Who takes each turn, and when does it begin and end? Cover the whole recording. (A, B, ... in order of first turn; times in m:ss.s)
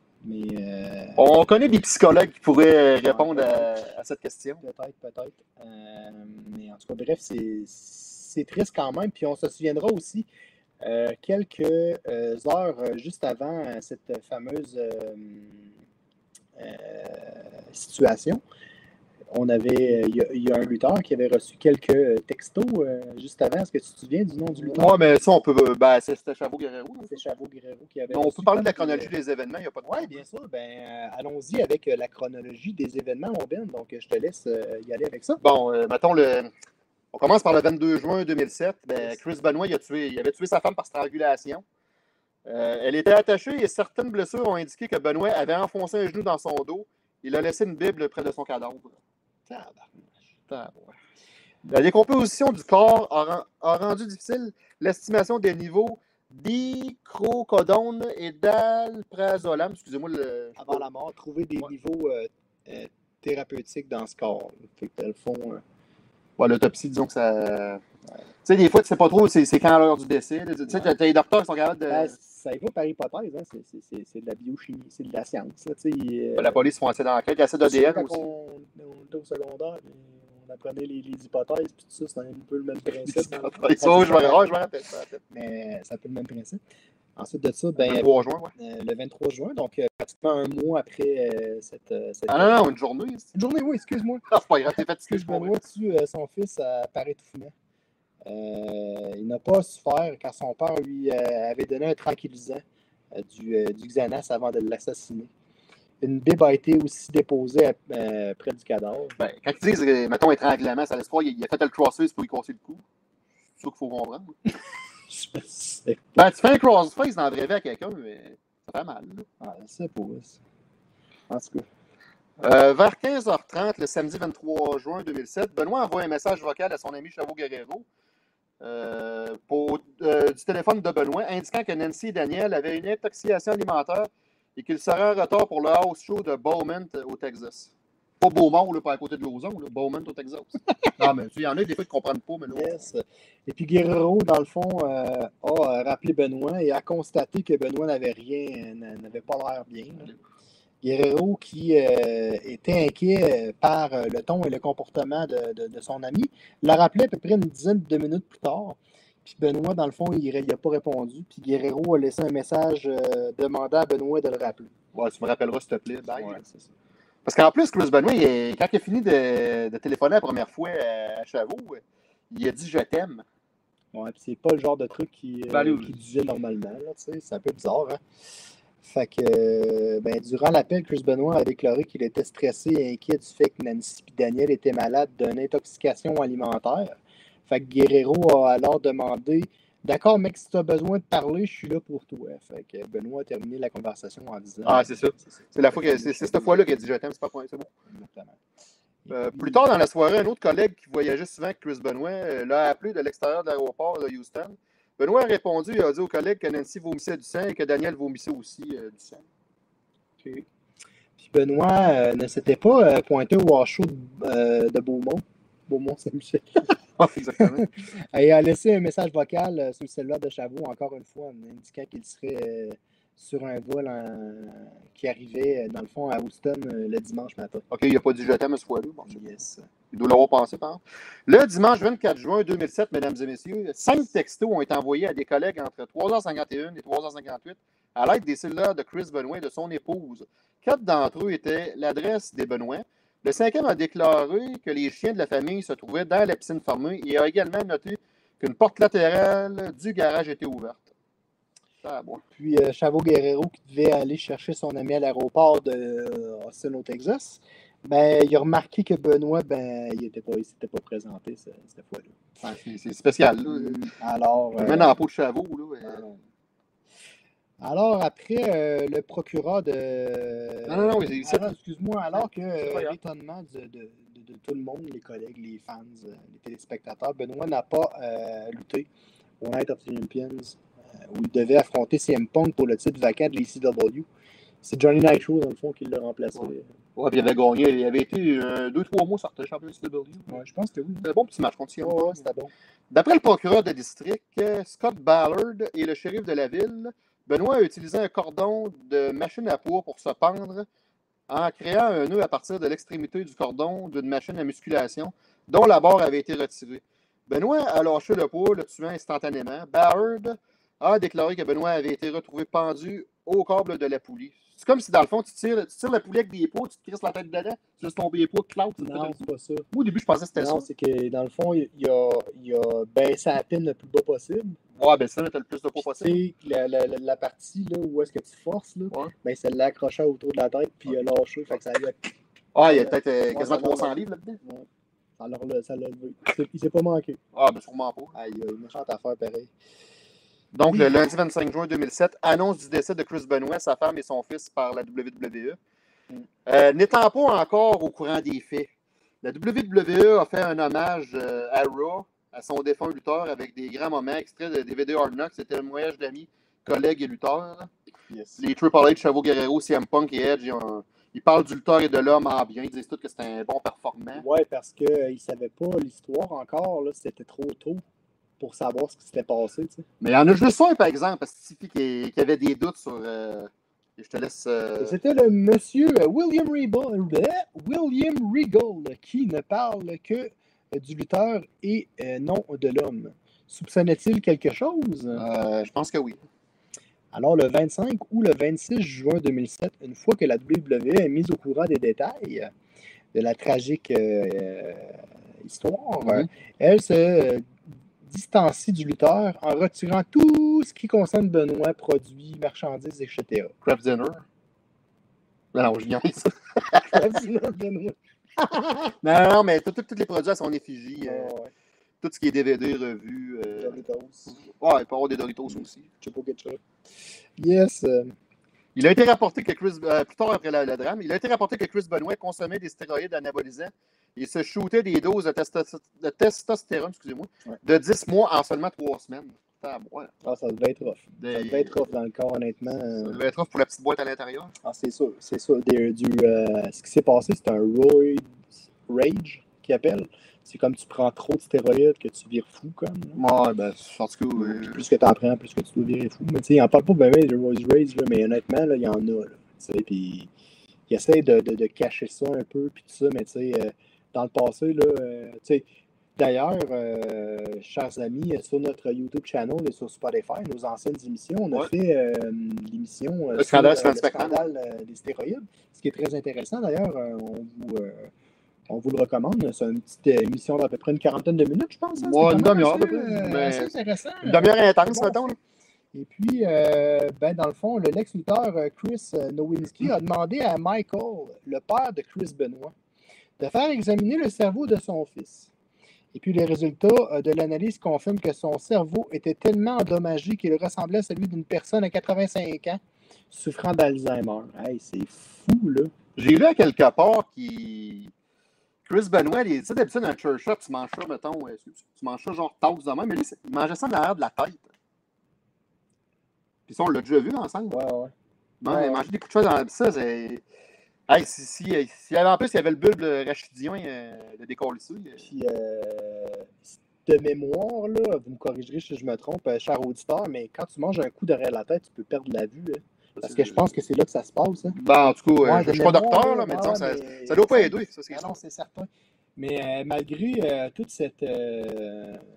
0:00.2-0:01.2 A
0:01.2-0:04.6 B
0:03.1-0:03.7 A
0:04.6-0:10.3 A
0:10.8-0:15.7 A
0:16.6-0:18.4 A
0:19.3-0:25.0 A
0:24.6-0:27.2 B
0:27.1-0:29.1 A
0:28.1-0:30.2 B
0:29.8-0:35.4 A
0:35.4-0:36.5 B
0:37.1-0:41.6 B
0:42.5-0:49.0 B
0:49.5-0:50.3 A
0:50.5-0:51.0 B
0:51.6-1:00.8 B
1:00.6-1:05.6 A
1:06.4-1:07.8 B
1:08.4-1:12.1 B
1:11.9-1:16.6 A
1:16.4-1:18.3 B
1:17.6-1:24.5 A
1:23.0-1:25.2 B
1:25.3-1:26.6 A
1:27.2-1:32.6 A
1:27.8-1:28.5 B
1:32.3-1:33.3 B
1:33.3-1:37.5 A
1:34.3-1:35.6 B
1:38.2-1:42.6 A
1:43.1-1:45.3 A
1:46.0-1:49.2 A
1:49.2-1:52.8 B
1:53.6-1:54.4 B
1:55.1-1:56.0 A
1:56.1-1:59.2 B
1:59.4-2:00.4 A
2:01.3-2:01.6 A
2:02.4-2:07.9 B
2:08.6-2:22.8 B
2:22.5-2:30.1 A
2:30.8-2:44.7 A
2:44.9-2:46.4 B
2:46.1-2:46.7 A
2:47.2-2:53.2 B
2:53.9-2:58.0 A
2:55.5-2:56.0 B
2:58.8-3:16.8 A
3:14.6-3:17.7 B
3:17.9-3:18.4 A
3:19.1-3:19.6 A
3:19.1-3:29.2 B
3:31.2-3:36.7 A
3:37.0-3:37.7 B
3:37.4-3:47.6 A
3:47.7-3:49.3 B
3:49.1-3:49.6 A
3:49.9-4:10.9 B
4:11.8-4:12.2 B
4:12.4-4:22.6 A
4:22.5-4:23.8 B
4:23.5-4:25.0 A
4:24.6-4:26.0 B
4:25.8-4:26.2 A
4:27.6-4:38.9 A
4:30.7-4:31.5 B
4:32.1-4:33.0 B
4:39.4-4:40.6 A
4:41.1-4:44.1 A
4:44.6-4:46.7 A
4:47.0-4:50.4 B
4:50.3-4:51.1 A
4:51.0-4:52.2 B
4:51.8-4:52.5 A
4:52.9-5:00.6 B
5:01.3-5:19.2 B
5:18.8-5:19.7 A
5:19.7-5:20.6 B
5:20.4-5:24.6 A
5:24.8-5:26.2 B
5:25.8-5:34.7 A
5:32.6-5:34.4 B
5:35.2-5:37.2 A
5:37.3-5:38.1 B
5:38.1-5:39.5 A
5:40.5-5:45.6 B
5:46.4-5:48.7 B
5:49.2-5:57.7 B
5:58.1-5:58.4 A
5:58.4-6:04.2 B
6:04.1-6:07.8 A
6:08.4-6:09.8 A
6:10.0-6:15.0 B
6:14.8-6:25.2 A
6:25.2-6:26.2 B
6:27.1-6:32.5 A
6:33.1-6:37.5 A
6:38.0-6:43.5 A
6:43.6-6:44.2 B
6:45.5-6:47.0 B
6:46.8-6:49.0 A
6:49.0-6:51.3 B
6:51.0-6:51.5 A
6:52.0-6:53.8 B
6:53.6-6:54.4 A
6:54.4-6:55.9 B
6:55.5-6:56.6 A
6:57.4-6:58.1 A
6:58.8-7:10.1 B
7:10.2-7:13.2 A
7:11.2-7:11.8 B
7:13.0-7:14.5 B
7:14.6-7:23.2 A
7:23.2-7:24.8 B
7:24.4-7:30.3 A
7:30.9-7:48.1 A
7:43.4-7:44.4 B
7:48.7-7:55.2 A
7:52.0-7:55.4 B
7:55.9-8:02.7 A
8:03.4-8:05.5 A
8:06.1-8:12.8 A
8:13.3-8:15.9 A
8:16.2-8:18.1 B
8:18.8-8:24.6 B
8:26.7-8:27.8 B
8:27.7-8:28.1 A
8:28.6-8:30.4 B
8:28.6-8:29.1 A
8:31.1-8:35.2 B
8:35.2-8:44.8 A
8:43.2-8:43.6 B
8:44.8-8:48.3 B
8:45.4-8:52.2 A